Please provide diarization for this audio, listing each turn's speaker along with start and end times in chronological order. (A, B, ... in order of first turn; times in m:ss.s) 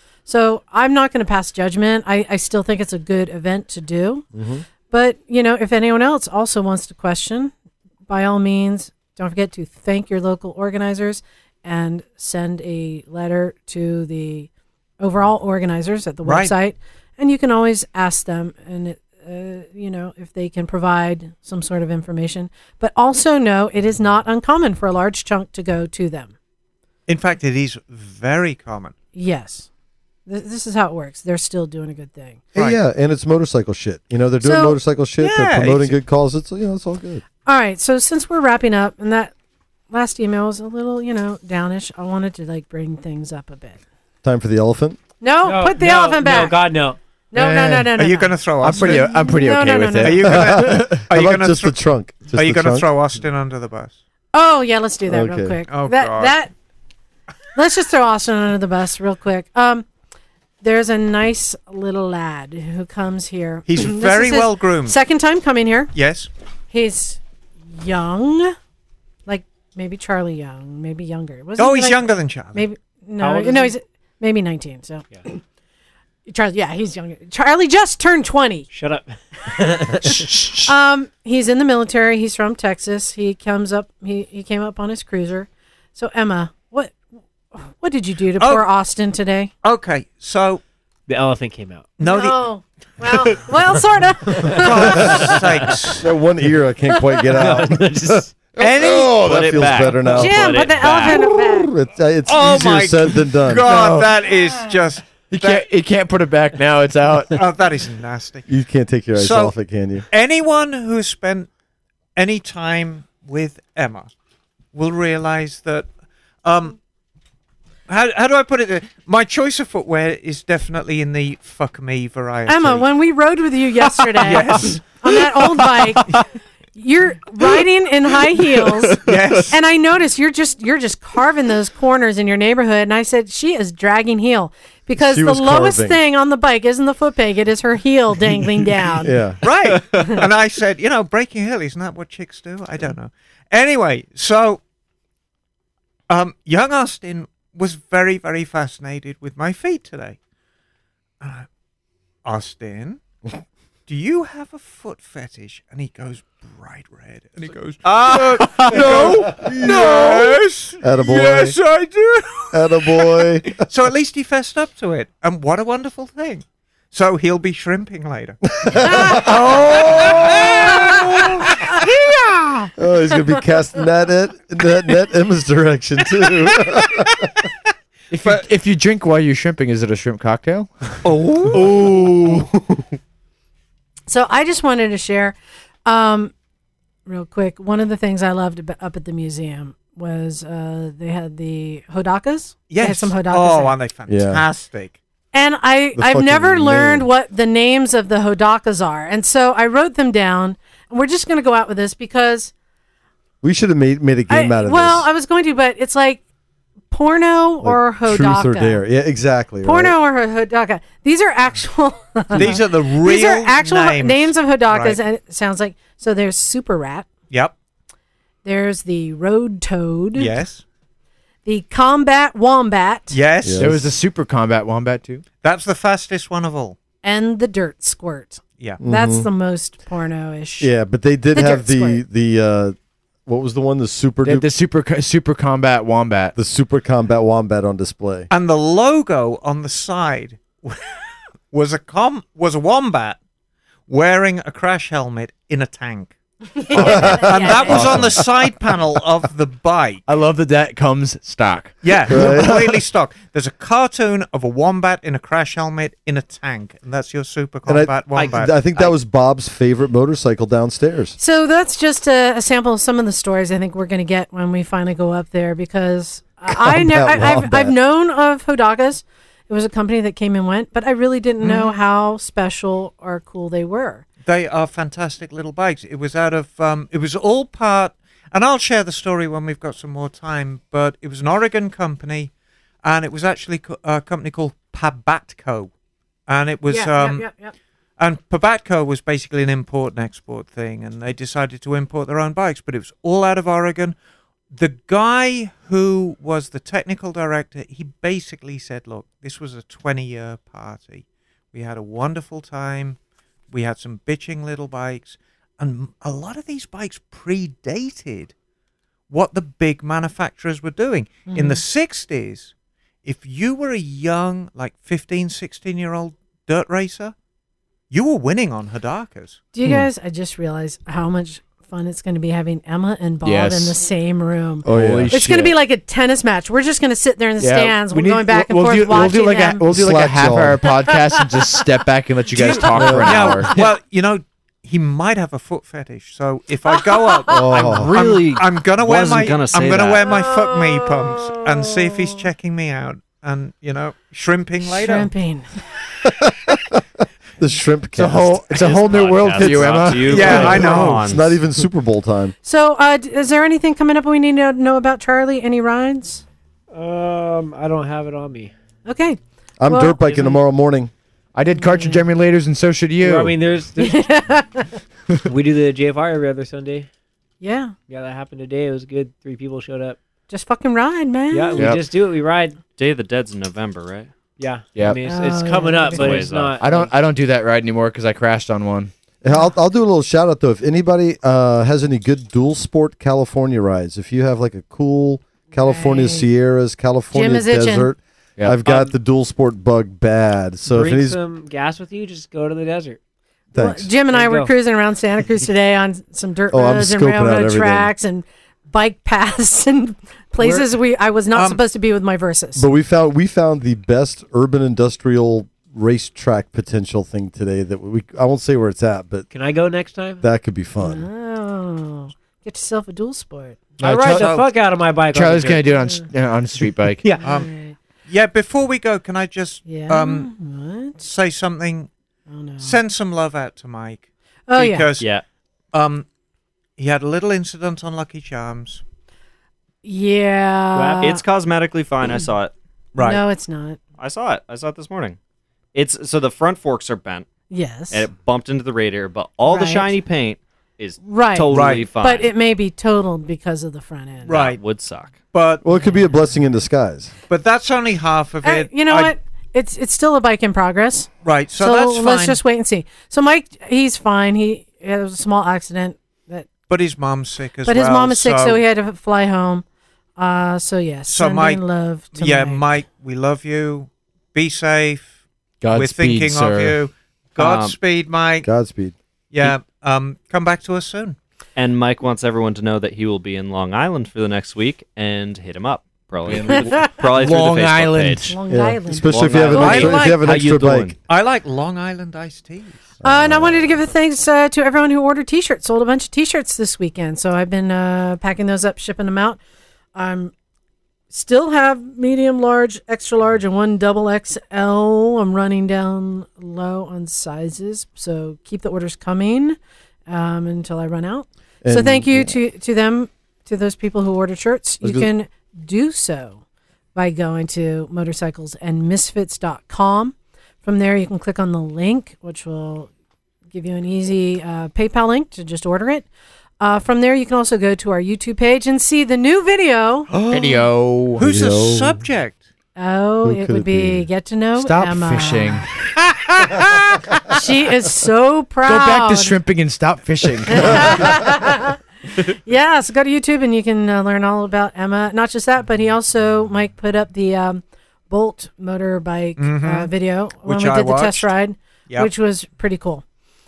0:00.2-0:04.3 A
0:04.3-0:04.6 B
0:04.9-0:07.5 A
0:08.1-0:14.5 A
0:15.0-0:26.3 A
0:16.2-0:16.5 C
0:27.1-0:28.9 C
0:29.1-0:29.7 A
0:30.2-0:32.4 A
0:32.5-0:37.2 B
0:34.4-0:34.8 A
0:35.2-0:36.0 C
0:37.4-0:39.3 A
0:39.9-0:43.8 A
0:44.2-0:45.0 B
0:45.2-0:46.6 A
0:45.4-0:47.0 D
0:47.3-0:50.3 A
0:47.3-0:47.9 E
0:48.0-0:49.1 C
0:48.6-0:50.9 E
0:50.0-0:51.8 C
0:50.3-0:52.9 B
0:52.3-0:54.0 C
0:54.3-0:56.5 A
0:55.1-0:55.6 B
0:55.7-0:56.4 C
0:57.6-0:59.8 A
1:00.6-1:05.9 A
1:03.7-1:05.0 C
1:05.9-1:06.3 C
1:06.7-1:08.6 A
1:09.2-1:15.4 A
1:11.6-1:12.6 C
1:13.2-1:13.8 D
1:16.3-1:18.7 A
1:18.7-1:20.3 D
1:20.0-1:27.0 A
1:20.1-1:20.6 C
1:27.5-1:29.5 A
1:28.4-1:28.7 C
1:29.6-1:30.6 C
1:31.1-1:31.9 D
1:32.0-1:32.4 C
1:32.0-1:35.7 A
1:33.2-1:33.8 D
1:34.4-1:35.0 D
1:34.5-1:36.1 C
1:36.0-1:40.4 B
1:37.3-1:38.3 D
1:38.6-1:39.5 C
1:39.1-1:41.3 F
1:40.1-1:41.7 A
1:41.1-1:43.9 B
1:42.3-1:45.6 C
1:43.7-1:44.1 E
1:45.3-1:47.4 E
1:47.3-1:48.5 C
1:48.5-1:50.0 B
1:49.1-1:49.6 C
1:50.1-1:51.5 C
1:52.2-1:54.1 C
1:54.7-1:55.9 C
1:56.4-1:56.8 C
1:57.9-2:02.8 C
2:02.5-2:06.2 A
2:04.1-2:06.2 C
2:06.8-2:19.2 A
2:09.0-2:09.6 C
2:15.0-2:16.0 B
2:19.0-2:19.4 B
2:19.4-2:24.6 C
2:26.1-2:30.2 C
2:31.2-2:31.5 C
2:32.2-2:33.0 C
2:33.9-2:51.9 C
2:38.6-2:41.6 B
2:42.5-2:43.6 B
2:48.5-2:50.9 B
2:48.8-2:49.2 A
2:50.5-2:52.7 A
2:52.8-2:57.3 B
2:58.1-3:01.0 E
3:01.0-3:01.9 C
3:01.5-3:02.3 E
3:01.5-3:02.3 B
3:04.1-3:06.3 A
3:07.0-3:13.8 A
3:12.7-3:15.0 C
3:14.1-3:14.4 B
3:15.3-3:22.5 A
3:16.0-3:17.1 B
3:23.4-3:25.1 B
3:24.3-3:26.2 A
3:26.9-3:28.8 A
3:27.6-3:29.9 B
3:29.6-3:37.1 A
3:32.3-3:35.0 C
3:38.4-3:40.3 A
3:40.1-3:40.6 C
3:41.4-3:43.2 A
3:43.1-3:43.8 C
3:43.4-3:43.9 B
3:43.6-3:45.2 E
3:45.4-3:46.8 C
3:47.0-3:50.7 A
3:48.8-3:49.3 B
3:50.6-3:54.5 B
3:51.3-3:52.0 A
3:54.2-3:56.3 E
3:56.4-3:58.3 B
3:58.3-4:03.2 C
4:03.9-4:06.1 C
4:06.6-4:07.9 A
4:06.6-4:10.0 C
4:06.7-4:08.7 B
4:10.1-4:12.7 E
4:11.8-4:18.6 C
4:12.0-4:12.6 B
4:17.6-4:21.2 B
4:18.2-4:18.9 F
4:21.2-4:34.0 A
4:26.5-4:27.7 B
4:31.4-4:31.7 C
4:34.2-4:42.3 C
4:42.8-4:45.7 C
4:46.3-4:47.3 C
4:46.7-4:47.5 A
4:48.0-4:53.9 C
4:54.5-5:03.0 C
5:03.5-5:08.3 C
5:09.1-5:12.5 C
5:11.3-5:11.6 A
5:13.0-5:17.1 C
5:17.9-5:19.4 C
5:19.5-5:29.6 A
5:23.2-5:23.8 E
5:24.6-5:25.2 B
5:24.7-5:25.5 E
5:27.4-5:33.5 E
5:29.6-5:30.6 B
5:30.7-5:31.6 A
5:32.3-5:45.1 C
5:32.7-5:33.3 B
5:36.7-5:37.4 A
5:37.3-5:37.9 B
5:37.5-5:40.2 F
5:40.1-5:42.2 A
5:44.6-5:45.5 A
5:46.0-5:46.8 B
5:47.4-5:52.3 B
5:47.9-5:51.0 E
5:48.6-5:51.4 F
5:50.0-5:51.0 C
5:52.4-5:56.2 A
5:56.7-5:58.5 D
5:58.8-6:00.1 A
5:59.6-6:00.9 B
6:00.0-6:00.4 D
6:01.3-6:03.4 E
6:01.5-6:02.0 A
6:03.0-6:04.1 D
6:03.8-6:04.7 A
6:05.3-6:06.9 D
6:07.4-6:07.7 A
6:07.9-6:10.0 D
6:10.3-6:11.7 A
6:11.3-6:12.6 D
6:11.6-6:11.8 E
6:12.8-6:14.1 F
6:14.4-6:16.9 D
6:15.0-6:16.3 A
6:15.9-6:16.6 F
6:16.6-6:18.9 E
6:19.2-6:31.2 B
6:19.3-6:19.5 A
6:25.6-6:26.3 A
6:27.1-6:27.9 A
6:28.6-6:28.9 D
6:30.7-6:33.0 D
6:33.5-6:33.9 B
6:33.5-6:42.7 A
6:34.1-6:34.5 D
6:36.5-6:37.9 B
6:41.3-6:41.6 C
6:42.6-6:49.3 B
6:49.3-6:50.2 D
6:50.2-6:51.1 B
6:50.8-6:53.6 A
6:53.8-6:54.4 E
6:53.8-6:55.8 D
6:54.2-6:54.5 C
6:55.1-6:57.0 E
6:57.1-6:57.8 A
6:57.2-6:57.5 C
6:58.1-7:00.3 C
6:59.6-7:01.0 A
7:01.0-7:01.9 C
7:02.3-7:02.8 A
7:02.6-7:05.1 C
7:04.5-7:04.9 A
7:05.7-7:06.0 C
7:06.8-7:08.8 C
7:09.8-7:11.2 A
7:10.7-7:12.5 F
7:12.9-7:13.2 C
7:13.0-7:13.8 A
7:14.0-7:15.2 F
7:15.7-7:17.3 F
7:17.5-7:18.1 A
7:17.9-7:22.3 F
7:19.4-7:19.9 A
7:21.0-7:24.4 A
7:21.5-7:21.8 C
7:24.2-7:24.6 C
7:24.3-7:25.2 F
7:25.3-7:25.6 C
7:25.6-7:27.1 B
7:27.3-7:29.1 C
7:28.4-7:36.5 A
7:31.2-7:32.4 C
7:36.7-7:38.6 C
7:37.6-7:39.6 A
7:40.2-7:42.6 A
7:41.1-7:41.6 C
7:42.1-7:45.1 C
7:45.6-7:46.8 E
7:45.7-7:48.5 C
7:47.4-7:47.7 F
7:48.4-7:48.9 B
7:49.3-7:51.2 C
7:51.6-7:58.3 F
7:56.2-7:58.3 E
7:58.3-8:00.0 A
7:58.5-8:00.9 B
7:59.0-8:00.9 F
7:59.5-8:00.3 C
8:01.1-8:02.8 C
8:03.0-8:03.8 B
8:03.0-8:09.4 A
8:09.9-8:10.3 A
8:11.1-8:19.6 A
8:20.1-8:26.4 A
8:21.6-8:22.3 B
8:24.8-8:25.1 B
8:26.9-8:32.9 A
8:33.5-8:36.1 A
8:36.6-8:40.1 A
8:40.1-8:42.5 C
8:40.3-8:41.2 E
8:41.2-8:42.0 B
8:42.8-8:45.6 A
8:43.2-8:44.1 B
8:44.6-8:45.9 E
8:47.3-8:49.4 A
8:48.6-8:51.2 E
8:50.5-9:03.0 A
8:59.4-8:59.9 C
9:00.4-9:01.3 C